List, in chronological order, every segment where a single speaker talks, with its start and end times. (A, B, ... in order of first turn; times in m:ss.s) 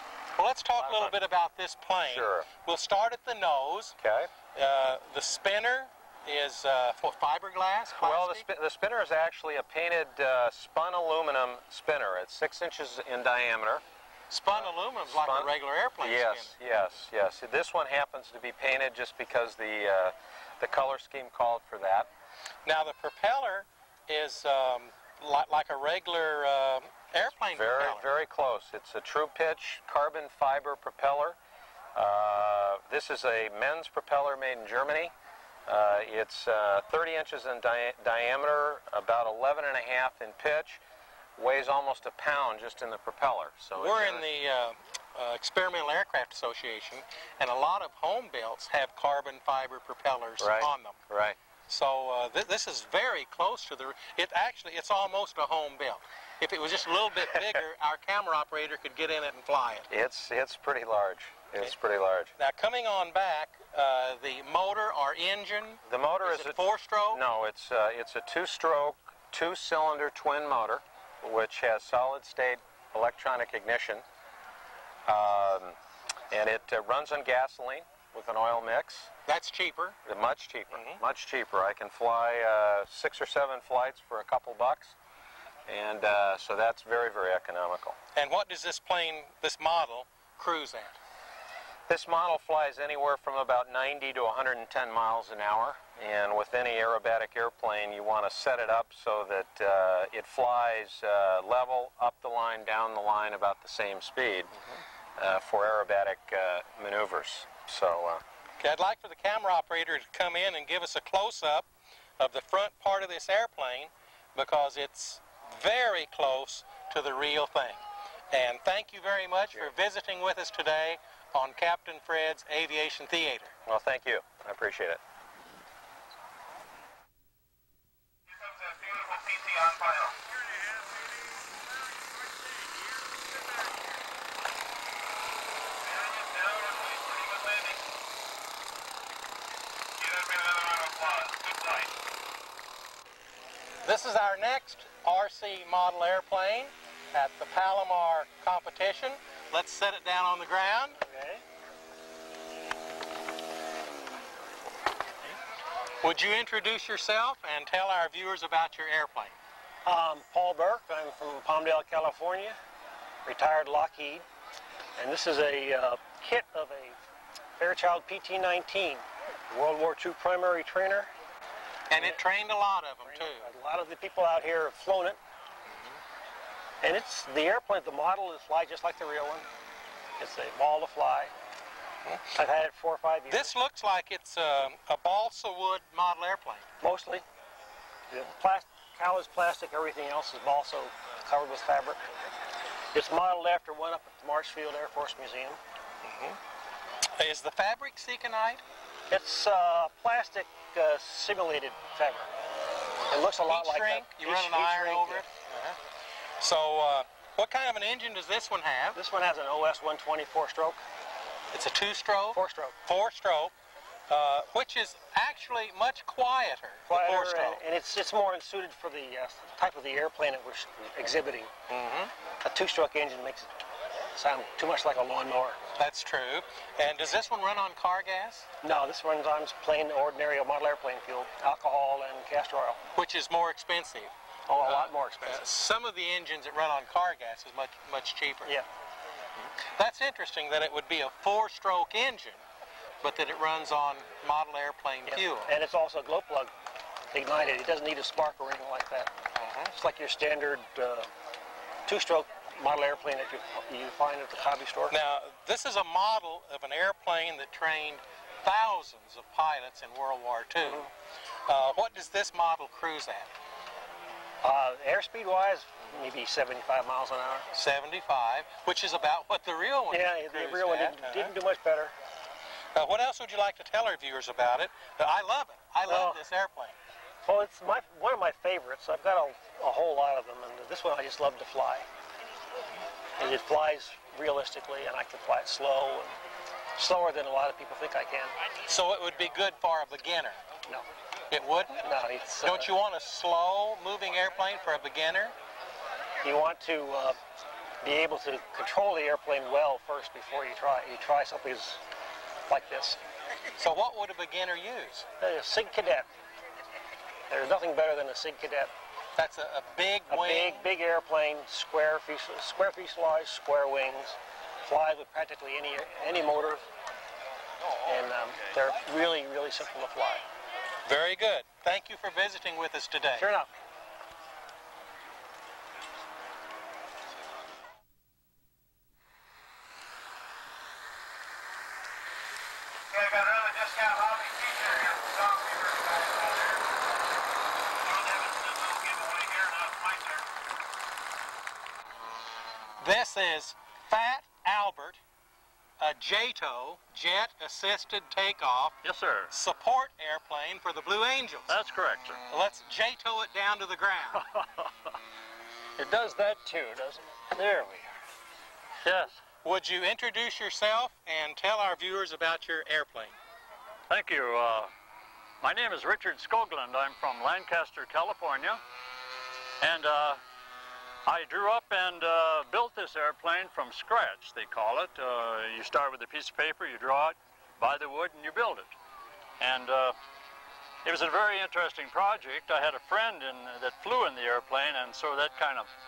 0:00.4-0:04.0 A
0:00.8-0:01.2 B
0:02.0-0:02.5 B
0:04.0-0:04.3 B
0:04.5-0:08.5 A
0:07.9-0:13.8 B
0:14.3-0:16.5 A
0:14.5-0:22.1 B
0:22.6-0:28.1 A
0:27.5-0:31.4 B
0:31.9-0:35.1 B
0:35.7-0:40.8 B
0:41.4-0:44.2 B
0:43.8-0:51.0 A
0:50.4-0:51.4 B
0:51.7-0:59.9 A
0:59.9-1:02.3 B
1:02.4-1:07.2 A
1:05.8-1:14.0 B
1:15.1-1:15.8 B
1:16.3-1:19.1 B
1:19.2-1:20.0 A
1:20.0-1:25.0 B
1:20.7-1:21.0 A
1:25.7-1:28.0 B
1:28.1-1:31.0 A
1:31.9-1:44.5 B
1:45.2-1:48.2 B
1:48.6-1:51.7 A
1:52.2-2:03.5 A
2:03.6-2:05.0 B
2:08.8-2:10.1 C
2:16.3-2:17.7 C
2:20.1-2:21.8 C
2:23.8-2:31.0 A
2:31.0-2:31.4 D
2:36.0-2:39.3 A
2:39.8-2:42.6 D
2:43.2-2:44.2 D
2:45.0-2:47.0 D
2:47.6-2:51.1 D
2:51.9-2:53.5 A
2:53.0-2:55.2 D
2:56.8-2:59.4 D
3:00.2-3:01.3 D
3:02.0-3:02.3 A
3:02.3-3:03.6 D
3:03.3-3:06.6 A
3:06.8-3:07.2 D
3:08.1-3:12.0 D
3:12.9-3:15.6 D
3:16.0-3:16.4 A
3:17.1-3:18.6 A
3:19.1-3:22.3 D
3:23.1-3:25.3 D
3:23.4-3:25.8 A
3:26.4-3:29.0 A
3:28.9-3:30.8 D
3:31.5-3:33.5 A
3:32.3-3:32.8 D
3:34.1-3:37.6 A
3:36.9-3:41.5 D
3:41.7-3:42.1 A
3:42.4-3:43.5 D
3:44.1-3:45.6 D
3:45.8-3:48.5 A
3:48.6-3:52.8 D
3:52.9-3:54.1 A
3:54.5-3:55.5 D
3:54.6-3:58.5 A
3:59.6-4:02.4 A
4:03.0-4:05.5 A
4:05.0-4:06.5 D
4:07.1-4:09.1 D
4:09.4-4:09.7 A
4:09.7-4:11.1 D
4:11.9-4:15.0 D
4:14.9-4:20.9 A
4:21.5-4:23.3 A
4:24.4-4:27.5 D
4:27.5-4:31.3 A
4:29.9-4:31.9 D
4:32.8-4:36.7 A
4:35.8-4:36.2 D
4:37.2-4:41.9 D
4:43.2-4:46.1 D
4:46.8-4:48.4 D
4:48.6-4:50.4 A
4:51.3-4:51.8 A
4:51.8-4:52.7 D
4:52.4-4:55.4 A
4:56.2-4:57.2 D
4:57.8-5:01.8 D
5:02.5-5:03.0 D
5:03.6-5:05.0 A
5:05.2-5:06.1 D
5:07.3-5:08.7 D
5:09.2-5:10.7 A
5:10.1-5:16.6 D
5:17.8-5:20.2 D
5:20.8-5:23.3 A
5:23.1-5:23.5 D
5:33.0-5:36.6 A
5:37.9-5:40.1 A
5:42.8-5:45.0 A
5:45.8-5:48.8 A
5:48.8-5:49.3 E
5:49.3-5:51.6 A
5:51.5-5:52.2 E
5:52.3-5:54.2 A
5:54.2-5:54.7 E
5:55.8-5:57.9 D
5:58.8-5:59.2 E
5:59.4-6:03.2 A
6:03.9-6:04.7 E
6:05.4-6:08.6 E
6:09.6-6:10.2 E
6:11.0-6:18.7 E
6:19.4-6:20.0 E
6:20.8-6:25.7 E